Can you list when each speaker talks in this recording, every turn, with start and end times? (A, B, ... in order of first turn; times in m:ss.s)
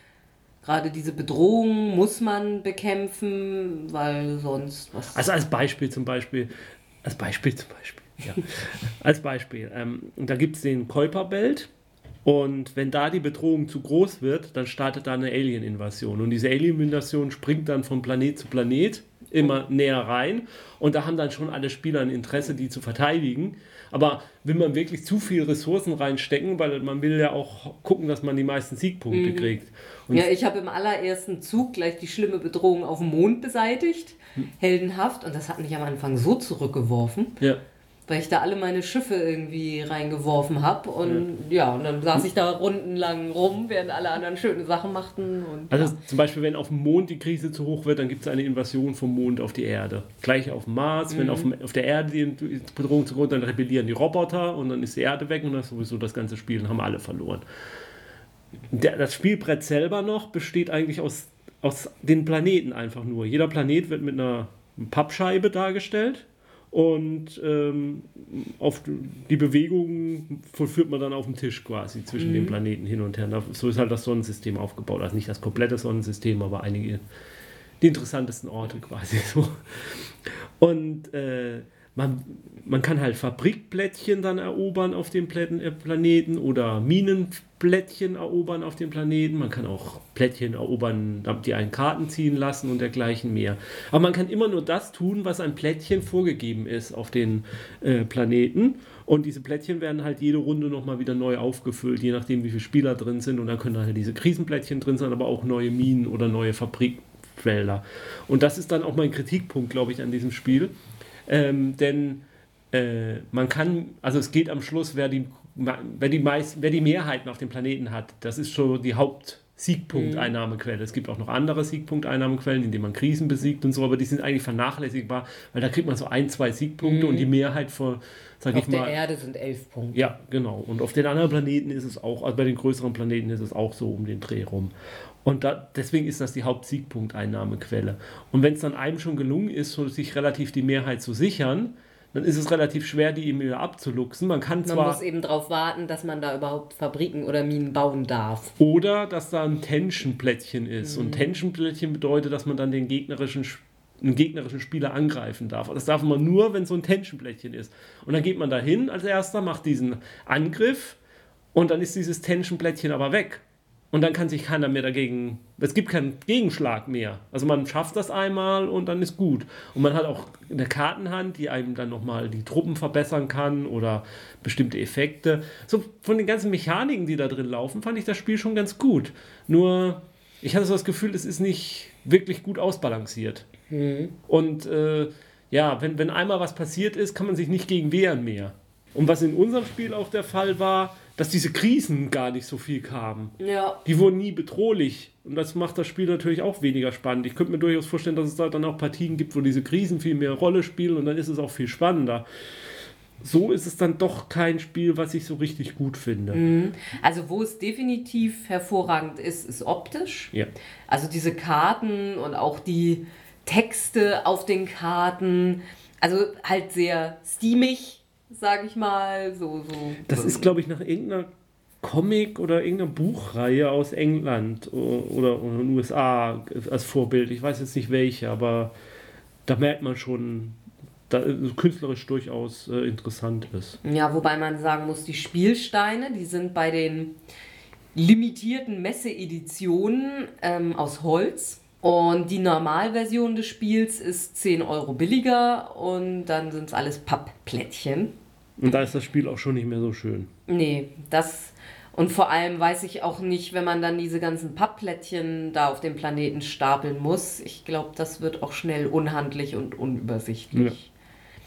0:00.6-0:05.3 A
0:05.1-0:06.5 B
0:07.0-0:11.7 B
0:12.2-0:30.3 B
0:29.1-0:29.5 A
0:30.1-0:37.4 A
0:38.1-0:46.0 A
0:45.7-0:57.4 B
0:51.1-0:51.5 A
0:58.7-1:17.0 B
1:12.2-1:12.6 A
1:17.8-1:50.7 B
1:51.3-2:09.0 B
1:59.9-2:00.3 A
2:06.8-2:07.3 A
2:08.5-2:10.1 A
2:09.9-2:14.7 B
2:15.2-2:25.0 B
2:24.6-2:28.5 A
2:28.6-2:41.0 B
2:30.8-2:31.3 A
2:41.5-3:03.4 B
3:03.7-3:04.2 A
3:04.3-3:22.2 B
3:13.4-3:13.8 A
3:23.2-3:26.4 B
3:26.3-3:30.3 A
3:30.9-3:40.5 A
3:40.0-3:41.3 B
3:41.8-3:48.7 B
3:49.4-3:53.8 B
3:53.8-3:57.2 A
3:57.9-4:08.1 A
4:08.6-4:10.3 B
4:10.5-4:20.9 A